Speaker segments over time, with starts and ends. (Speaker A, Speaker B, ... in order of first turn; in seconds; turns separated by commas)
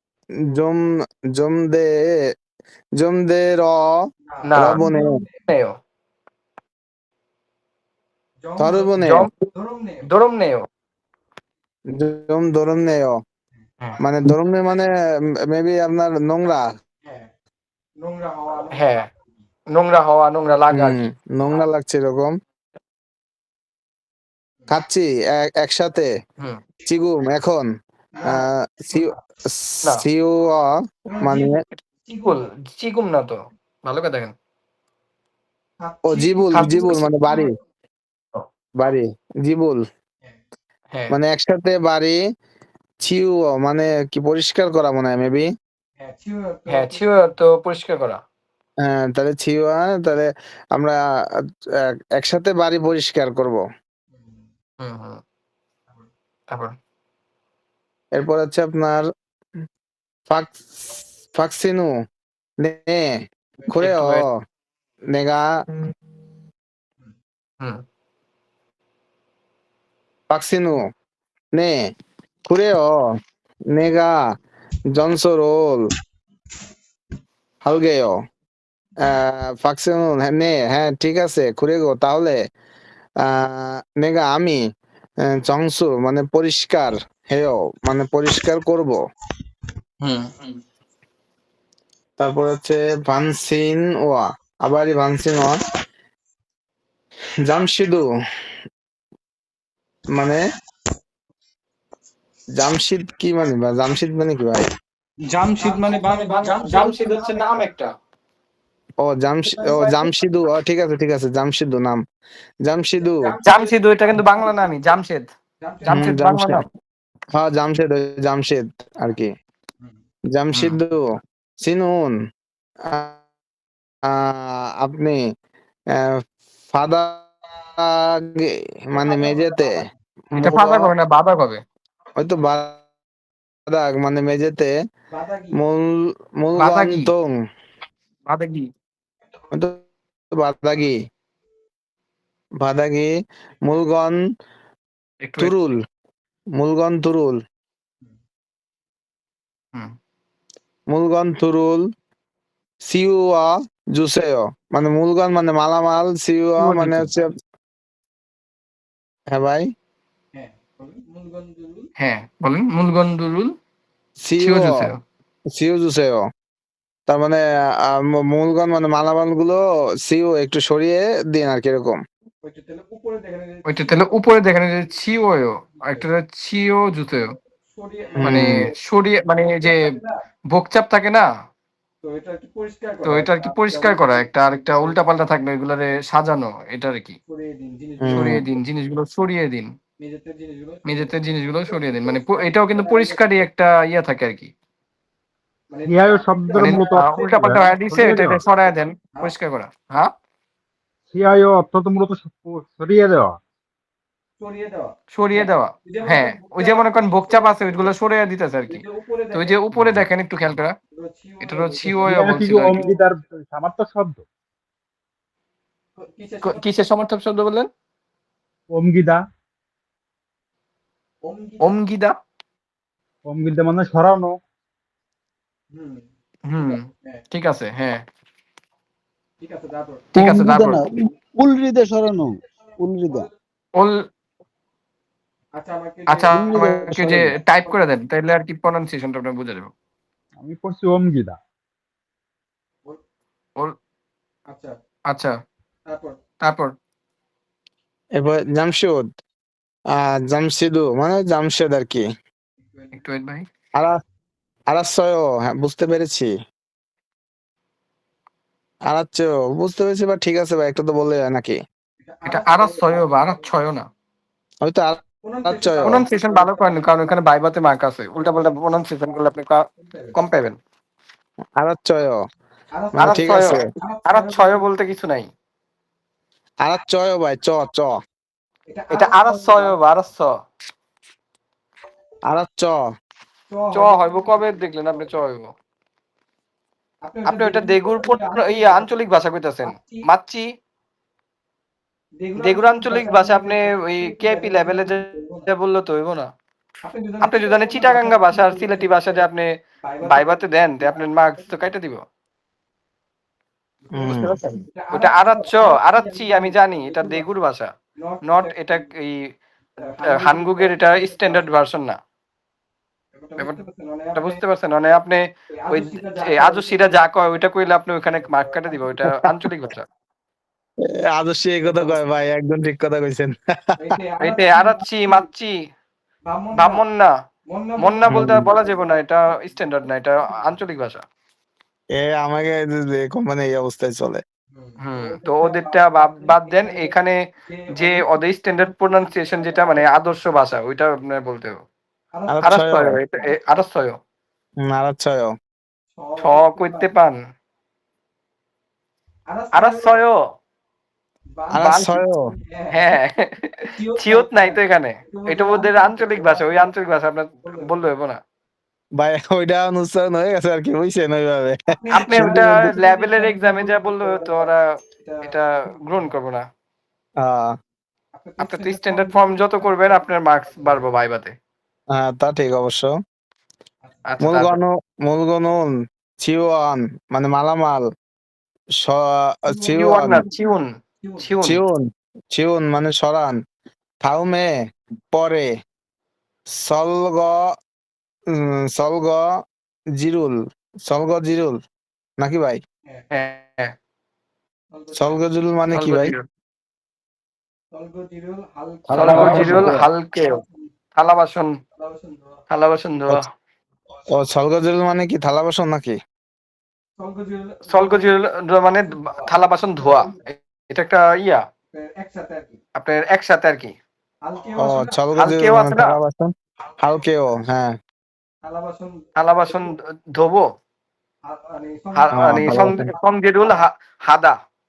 Speaker A: 0.4-2.3, Speaker A: 3.0-5.1, Speaker B: 4.3-5.3, Speaker C: 4.5-4.8, Speaker C: 5.5-5.8, Speaker B: 8.4-8.9, Speaker A: 8.6-9.3, Speaker C: 9.0-9.4, Speaker B: 9.5-10.1, Speaker C: 10.1-10.7, Speaker A: 11.9-13.2, Speaker A: 14.0-14.9, Speaker A: 15.4-16.8, Speaker B: 17.0-17.3, Speaker B: 18.0-19.1, Speaker C: 18.7-19.1, Speaker C: 19.7-21.0, Speaker A: 20.7-22.3, Speaker A: 24.7-26.1, Speaker A: 26.9-27.7, Speaker B: 28.2-29.2, Speaker A: 28.3-31.6, Speaker B: 31.1-31.6, Speaker B: 32.1-32.4, Speaker C: 32.2-34.3, Speaker B: 35.8-37.5, Speaker A: 36.1-37.5, Speaker C: 36.5-37.0, Speaker A: 38.8-39.8, Speaker C: 40.9-41.2, Speaker A: 41.1-42.2, Speaker A: 43.0-45.5, Speaker B: 46.0-47.0, Speaker C: 46.7-48.2, Speaker A: 48.8-51.0, Speaker A: 51.9-53.6, Speaker B: 54.1-54.5, Speaker C: 54.8-55.2, Speaker A: 58.1-59.0, Speaker A: 60.3-61.9, Speaker A: 62.6-64.3, Speaker C: 63.7-64.2, Speaker A: 65.1-65.5, Speaker A: 70.3-70.8, Speaker A: 71.5-71.9, Speaker A: 72.5-73.2, Speaker A: 73.7-74.2, Speaker A: 74.9-75.8, Speaker A: 77.6-78.2, Speaker A: 79.0-82.4, Speaker A: 83.2-84.6, Speaker A: 85.3-89.0, Speaker C: 90.0-90.6, Speaker A: 92.2-95.6, Speaker A: 97.4-98.1, Speaker A: 100.1-100.5, Speaker A: 102.6-104.7, Speaker B: 105.3-107.4, Speaker C: 105.6-107.9, Speaker A: 109.0-112.0, Speaker B: 109.5-110.1, Speaker A: 112.6-113.3, Speaker B: 113.0-114.8, Speaker C: 113.5-115.3, Speaker B: 115.6-116.0, Speaker A: 115.9-116.7, Speaker C: 115.9-116.7, Speaker A: 117.3-119.3, Speaker A: 120.3-121.0, Speaker C: 120.5-120.8, Speaker A: 121.6-122.2, Speaker A: 122.9-123.2, Speaker A: 124.1-125.2, Speaker A: 125.9-126.2, Speaker A: 126.7-129.8, Speaker B: 129.0-129.9, Speaker A: 130.3-130.9, Speaker C: 130.4-131.6, Speaker A: 132.2-132.8, Speaker A: 133.7-134.7, Speaker B: 135.1-135.6, Speaker A: 135.6-137.3, Speaker C: 136.6-137.1, Speaker C: 138.3-138.7, Speaker A: 139.5-139.8, Speaker A: 140.4-141.0, Speaker A: 142.6-143.1, Speaker A: 143.6-144.2, Speaker C: 145.2-145.6, Speaker A: 145.4-145.8, Speaker A: 146.6-147.4, Speaker A: 150.9-151.8, Speaker A: 152.9-157.3, Speaker C: 156.6-157.1, Speaker A: 159.3-159.7, Speaker B: 160.3-161.9, Speaker C: 162.0-163.5, Speaker A: 164.2-164.8, Speaker C: 164.4-165.0, Speaker A: 165.6-166.2, Speaker A: 167.1-172.0, Speaker B: 172.4-174.0, Speaker C: 173.7-177.3, Speaker B: 175.8-176.1, Speaker B: 177.7-178.7, Speaker A: 178.2-178.7, Speaker C: 178.2-179.8, Speaker B: 179.6-180.2, Speaker C: 180.5-181.3, Speaker B: 182.0-185.0, Speaker C: 183.0-187.2, Speaker B: 187.3-188.4, Speaker A: 188.0-188.4, Speaker C: 188.1-189.7, Speaker B: 190.0-191.2, Speaker C: 190.9-194.5, Speaker B: 191.7-193.4, Speaker B: 195.7-198.2, Speaker D: 195.9-198.4, Speaker C: 196.6-200.1, Speaker D: 201.1-203.4, Speaker B: 204.4-207.9, Speaker C: 205.1-210.7, Speaker B: 208.7-209.6, Speaker B: 210.9-213.0, Speaker C: 211.4-212.8, Speaker D: 211.9-214.2, Speaker B: 216.0-216.6, Speaker C: 216.4-217.7, Speaker D: 218.7-219.2, Speaker B: 221.2-221.8, Speaker C: 221.6-222.2, Speaker D: 223.2-224.4, Speaker B: 225.7-226.1, Speaker C: 226.5-228.0, Speaker B: 229.4-230.1, Speaker C: 230.1-230.8, Speaker E: 230.2-233.3, Speaker B: 235.5-236.6, Speaker C: 236.1-239.7, Speaker E: 236.3-237.4, Speaker D: 240.4-241.4, Speaker B: 244.5-244.8, Speaker B: 245.9-246.2, Speaker C: 246.4-246.7, Speaker A: 248.2-249.1, Speaker A: 249.9-252.1, Speaker B: 252.6-253.0, Speaker C: 252.9-253.5, Speaker A: 254.7-256.3, Speaker A: 258.9-261.6, Speaker B: 262.0-263.5, Speaker C: 262.3-263.9, Speaker A: 264.6-266.1, Speaker B: 265.2-267.1, Speaker C: 265.8-269.6, Speaker B: 269.8-270.2, Speaker C: 270.1-270.6, Speaker A: 271.6-272.2, Speaker B: 272.7-274.7, Speaker A: 273.0-273.7, Speaker C: 273.0-275.3, Speaker A: 276.6-277.9, Speaker B: 278.7-279.8, Speaker C: 278.9-280.3, Speaker A: 282.3-282.8, Speaker B: 283.5-285.1, Speaker C: 283.7-285.5, Speaker B: 287.0-289.0, Speaker C: 287.3-290.5, Speaker B: 289.6-290.1, Speaker B: 292.2-295.5, Speaker C: 292.4-296.3, Speaker B: 296.8-299.3, Speaker C: 297.2-299.5, Speaker B: 299.8-301.7, Speaker C: 300.0-302.0, Speaker B: 303.8-304.2, Speaker A: 303.9-304.4, Speaker C: 304.0-307.7, Speaker B: 304.7-307.2, Speaker B: 308.0-308.9, Speaker C: 308.2-309.2, Speaker B: 309.8-311.5, Speaker C: 310.2-312.0, Speaker B: 313.1-314.4, Speaker C: 314.1-319.9, Speaker B: 315.5-317.3, Speaker B: 318.2-319.0, Speaker A: 321.1-323.4, Speaker B: 321.6-322.0, Speaker B: 323.8-325.3, Speaker C: 324.2-325.5, Speaker B: 326.2-326.8, Speaker C: 326.6-327.1, Speaker B: 327.5-330.5, Speaker C: 327.8-331.0, Speaker A: 328.1-328.5, Speaker A: 331.9-334.2, Speaker B: 334.5-340.0, Speaker C: 334.8-337.2, Speaker C: 337.8-341.6, Speaker B: 342.1-342.6, Speaker A: 342.3-343.0, Speaker C: 342.4-344.0, Speaker B: 343.3-343.6, Speaker A: 344.6-345.3, Speaker B: 345.9-346.9, Speaker C: 346.2-347.2, Speaker B: 349.3-350.0, Speaker C: 349.5-350.2, Speaker B: 351.3-353.0, Speaker A: 351.5-352.2, Speaker C: 351.6-352.0, Speaker C: 352.7-358.2, Speaker B: 353.7-356.7, Speaker B: 357.4-357.7, Speaker A: 359.0-362.8, Speaker B: 361.7-366.1, Speaker C: 361.9-364.6, Speaker C: 365.2-366.4, Speaker A: 367.2-367.5, Speaker B: 368.1-370.9, Speaker C: 368.4-371.3, Speaker A: 371.9-372.9, Speaker B: 373.8-374.1, Speaker C: 374.1-374.6, Speaker A: 374.2-377.9, Speaker A: 378.8-380.2, Speaker B: 379.5-380.3, Speaker C: 379.8-380.7, Speaker B: 381.0-381.3, Speaker C: 381.2-381.6, Speaker A: 381.4-383.4, Speaker A: 384.0-384.5, Speaker A: 385.1-385.5, Speaker A: 386.5-387.4, Speaker A: 388.3-389.3, Speaker A: 390.0-391.6, Speaker A: 392.2-392.6, Speaker C: 393.1-393.7, Speaker B: 394.7-395.2, Speaker A: 394.9-396.1, Speaker C: 395.7-396.2, Speaker B: 397.7-399.8, Speaker A: 398.9-399.9, Speaker C: 398.9-400.4, Speaker B: 400.3-400.7, Speaker C: 400.9-401.5, Speaker B: 401.8-402.4, Speaker C: 402.5-403.2, Speaker A: 404.1-406.0, Speaker B: 407.0-408.2, Speaker C: 407.7-411.4, Speaker B: 408.7-410.2, Speaker B: 411.7-412.6, Speaker C: 412.8-413.7, Speaker B: 414.2-415.0, Speaker A: 414.6-417.8, Speaker C: 415.2-415.9, Speaker B: 418.4-419.7, Speaker C: 419.2-420.5, Speaker B: 421.2-423.6, Speaker C: 421.9-424.4, Speaker A: 422.1-422.9